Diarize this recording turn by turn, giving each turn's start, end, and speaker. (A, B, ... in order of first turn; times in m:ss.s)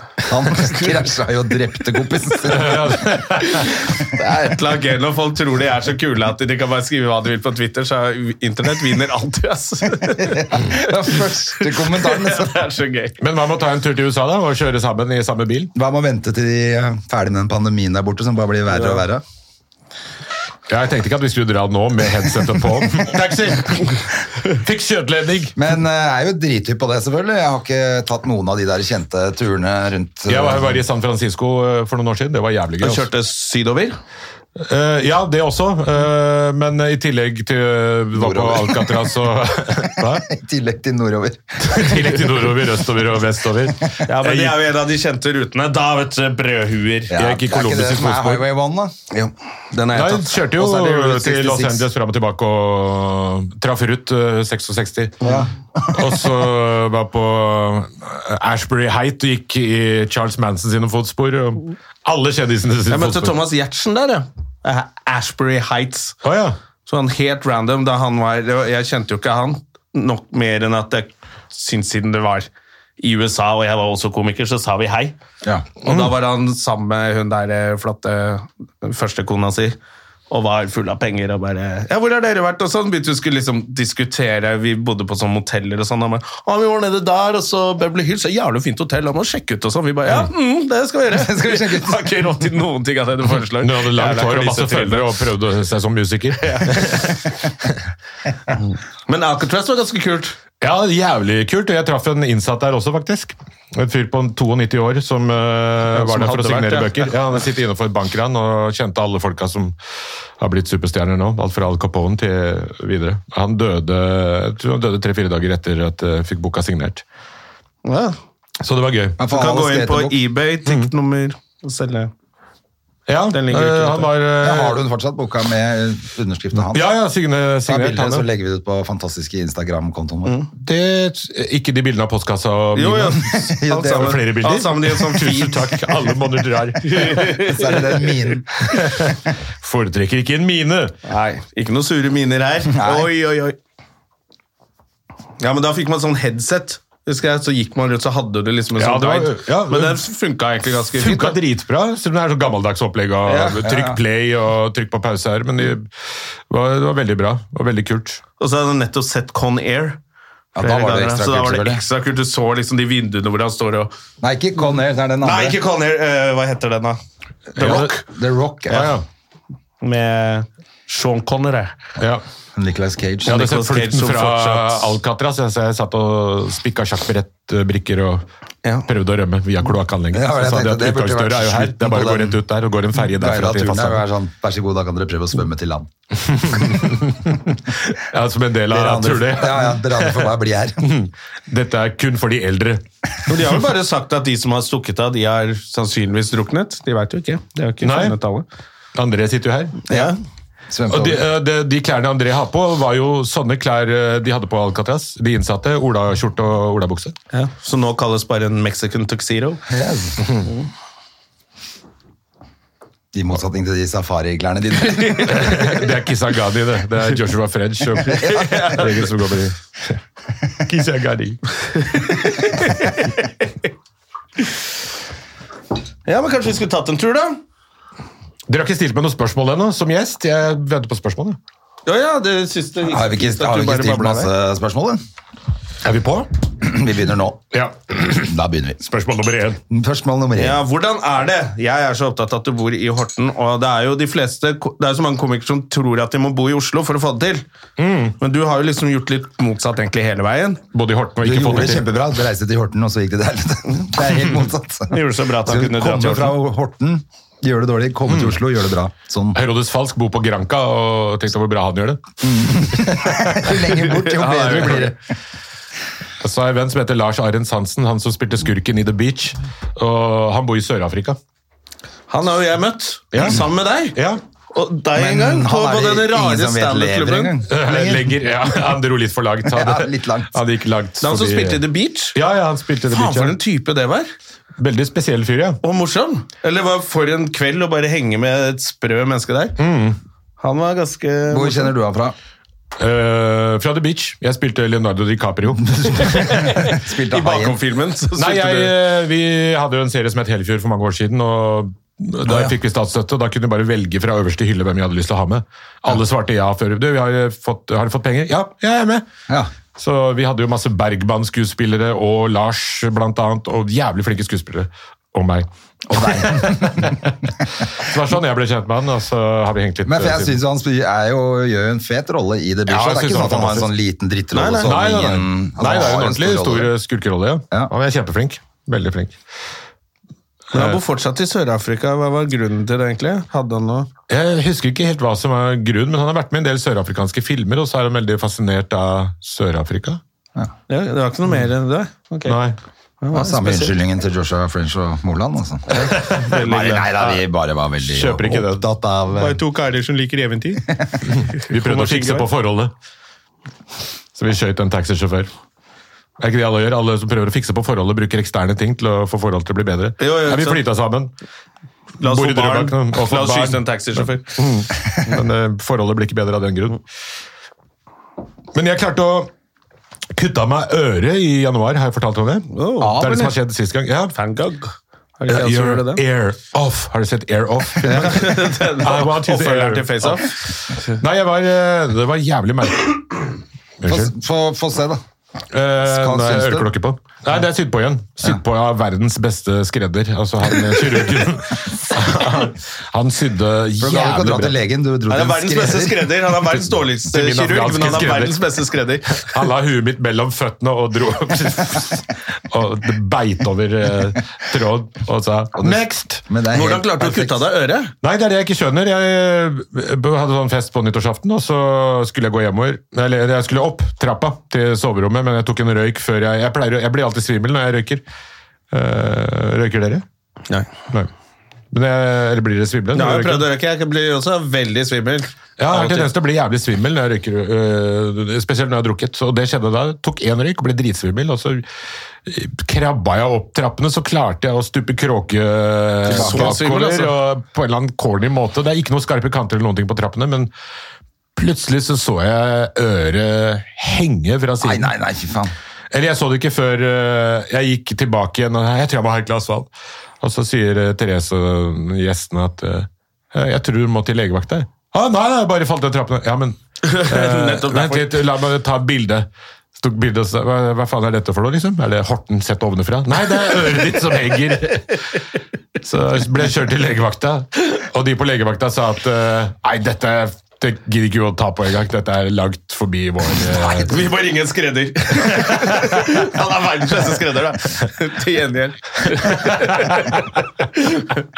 0:00.2-0:03.2 A
0:02.4-0:03.8 B
0:03.4-0:13.2 C
0:10.1-0:12.6 A
0:13.2-0:15.7 B
0:15.7-0:19.2 A
0:18.7-0:19.0 C
0:20.7-0:25.6 B
0:25.5-0:30.8 A
0:30.3-0:33.1 B
0:32.8-0:34.0 C
0:34.6-0:40.3 B
0:38.1-0:39.1 A
0:39.7-0:42.1 A
0:41.6-0:44.6 B
0:44.0-0:47.1 C
0:47.1-0:49.0 A
0:47.2-0:48.4 B
0:49.1-0:51.3 C
0:49.9-0:55.2 B
0:50.8-0:51.8 A
0:55.2-0:56.2 A
0:55.9-1:03.4 B
1:02.9-1:06.2 C
1:06.2-1:06.6 B
1:06.8-1:15.2 C
1:15.8-1:19.8 C
1:15.8-1:16.1 B
1:20.3-1:35.1 C
1:31.1-1:32.1 A
1:33.6-1:37.2 B
1:36.4-1:37.2 C
1:39.1-1:40.4 C
1:40.6-1:49.7 B
1:45.9-1:47.1 C
1:50.4-1:57.0 B
1:57.8-1:58.2 C
1:58.6-1:59.2 B
1:59.2-2:00.2 A
1:59.3-2:02.1 C
2:03.1-2:04.8 B
2:03.3-2:04.1 C
2:04.4-2:06.9 A
2:06.6-2:08.3 B
2:07.6-2:10.4 A
2:10.6-2:17.4 B
2:12.7-2:16.0 C
2:13.4-2:14.2 A
2:16.8-2:18.0 C
2:17.4-2:19.0 A
2:18.7-2:20.9 B
2:21.0-2:23.6 C
2:22.7-2:23.1 A
2:25.4-2:31.4 C
2:28.8-2:30.0 B
2:30.9-2:35.9 B
2:33.2-2:33.6 C
2:33.6-2:34.0 A
2:36.5-2:38.2 B
2:38.4-2:40.0 C
2:40.5-2:41.8 A
2:40.6-2:43.9 C
2:44.2-2:45.6 A
2:45.2-2:47.0 C
2:47.5-2:48.0 C
2:47.6-2:48.0 B
2:47.6-2:48.9 A
2:48.7-2:49.0 C
2:48.7-2:49.0 B
2:49.8-2:51.8 C
2:52.0-2:52.2 B
2:52.5-2:53.4 A
2:53.2-2:54.9 C
2:53.2-2:58.2 B
2:58.8-3:04.0 B
3:00.1-3:02.4 A
3:03.0-3:05.9 A
3:06.2-3:10.3 B
3:08.7-3:10.9 A
3:10.8-3:12.8 B
3:13.3-3:18.4 C
3:17.8-3:18.2 B
3:18.9-3:19.8 B
3:19.9-3:20.1 A
3:19.9-3:20.2 C
3:20.7-3:21.2 A
3:20.9-3:27.1 B
3:27.3-3:29.6 C
3:29.7-3:30.3 A
3:33.1-3:35.6 A
3:34.8-3:35.8 C
3:35.3-3:39.6 B
3:38.0-3:39.1 C
3:38.2-3:38.5 A
3:40.6-3:41.9 B
3:41.8-3:43.5 C
3:46.0-3:47.4 C
3:48.5-3:51.4 B
3:51.8-3:54.3 C
3:52.8-3:55.0 A
3:55.8-3:56.3 B
3:56.6-3:57.4 A
3:57.5-3:59.6 B
3:58.1-3:58.8 A
3:59.7-4:00.6 A
4:00.4-4:07.4 C
4:07.8-4:08.2 B
4:08.2-4:10.6 C
4:10.7-4:11.9 B
4:11.2-4:19.4 A
4:14.9-4:16.3 C
4:18.1-4:18.4 B
4:19.3-4:24.9 B
4:22.2-4:25.0 A
4:23.9-4:24.9 C
4:26.2-4:31.2 B
4:32.1-4:34.0 C
4:33.1-4:34.2 B
4:34.5-4:37.4 C
4:34.9-4:38.2 A
4:37.5-4:41.6 B
4:39.5-4:40.4 A
4:41.0-4:42.2 C
4:42.1-4:43.4 B
4:42.9-4:44.1 C
4:44.6-4:45.6 B
4:45.6-4:49.6 C
4:49.6-4:50.0 B
4:50.4-4:51.7 C
4:51.3-4:52.2 A
4:52.8-4:56.8 B
4:55.6-4:57.6 A
4:56.6-4:58.7 C
4:58.2-5:09.0 B
5:02.2-5:02.5 A
5:09.8-5:20.4 B
5:15.9-5:17.0 A
5:19.8-5:26.7 A
5:22.7-5:23.7 B
5:24.3-5:24.7 C
5:24.6-5:29.2 B
5:30.5-5:30.8 B
5:30.5-5:33.9 C
5:34.1-5:40.0 B
5:40.7-5:42.4 C
5:42.2-5:42.6 B
5:43.0-5:43.7 C
5:43.1-5:49.4 A
5:45.7-5:47.2 C
5:45.9-5:46.2 B
5:47.8-5:48.6 B
5:49.1-5:52.2 C
5:51.1-5:52.7 B
5:54.1-5:55.3 B
5:56.2-6:01.1 B
6:00.0-6:00.6 C
6:02.0-6:04.4 C
6:02.0-6:06.8 B
6:08.5-6:09.3 B
6:10.1-6:14.1 B
6:12.5-6:13.3 C
6:12.8-6:13.2 A
6:14.1-6:16.0 C
6:15.3-6:24.1 B
6:17.8-6:20.4 C
6:23.8-6:25.0 A
6:25.5-6:34.6 B
6:25.8-6:26.7 A
6:33.8-6:36.1 A
6:35.1-6:39.3 C
6:36.9-6:38.4 B
6:39.2-6:46.2 B
6:45.6-6:47.4 A
6:46.5-6:47.9 C
6:48.0-6:58.0 B
6:58.7-7:00.0 B
7:01.7-7:03.4 B
7:02.9-7:06.1 C
7:05.6-7:11.6 B
7:12.2-7:20.5 B
7:16.0-7:16.6 A
7:16.1-7:17.1 C
7:21.4-7:24.9 B
7:24.6-7:25.5 A
7:25.9-7:29.7 B
7:30.2-7:39.3 B
7:36.8-7:38.2 C
7:39.8-7:45.2 B
7:45.8-7:54.0 B
7:53.6-8:00.2 C
7:55.5-7:56.0 B
7:59.2-8:00.2 B
8:00.8-8:01.2 C